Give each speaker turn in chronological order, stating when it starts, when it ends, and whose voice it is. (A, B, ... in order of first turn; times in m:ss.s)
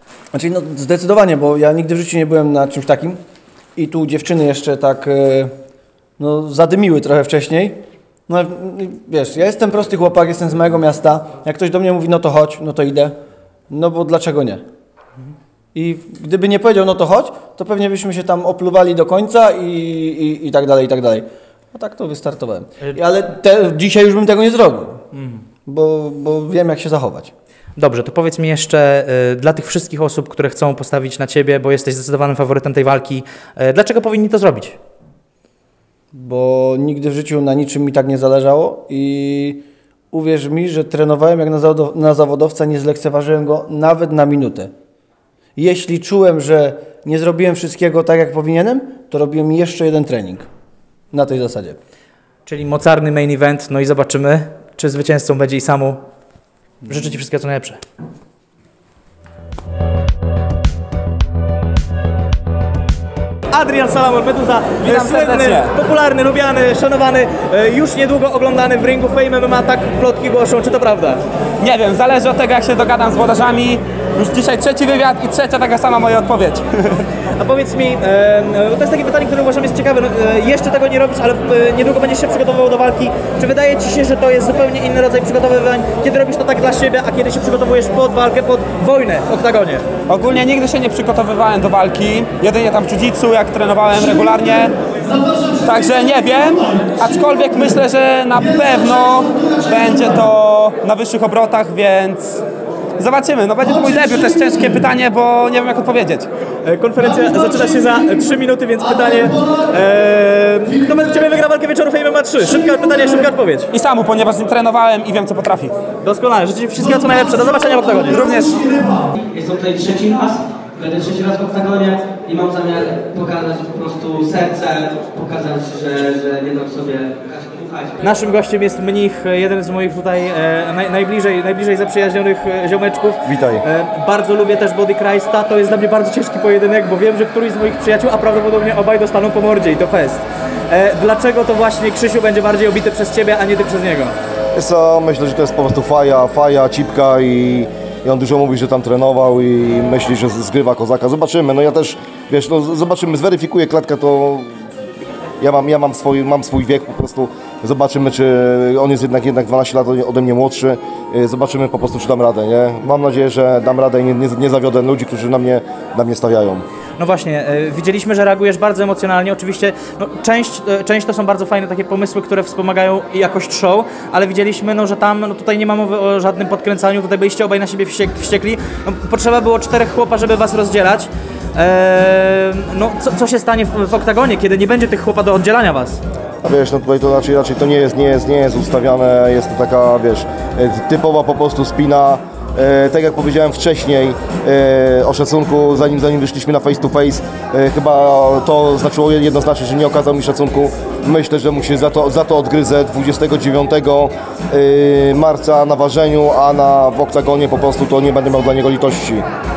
0:00.3-0:03.2 A
0:03.8-0:05.6 A
0:06.2-0:13.2 A
0:13.7-0:14.6 A
0:15.7-0:25.0 A
0:25.1-0:25.4 B
0:25.7-0:27.3 A
0:27.8-0:34.8 B
0:36.1-0:44.7 A
0:45.6-0:50.5 A
0:51.1-0:51.8 A
0:52.5-0:56.0 B
0:56.9-0:57.8 B
1:03.5-1:11.2 B
1:04.8-1:05.7 C
1:11.6-1:17.0 C
1:17.4-1:29.9 B
1:30.1-1:34.7 C
1:35.6-1:42.4 C
1:43.0-1:46.3 C
1:46.6-1:53.7 B
1:53.7-1:55.7 C
1:56.0-1:58.2 B
1:58.1-1:58.6 C
1:59.3-2:08.0 D
2:08.0-2:24.2 B
2:13.2-2:13.6 E
2:24.6-2:34.6 E
2:35.4-2:46.6 E
2:47.0-3:06.0 B
3:06.4-3:29.2 E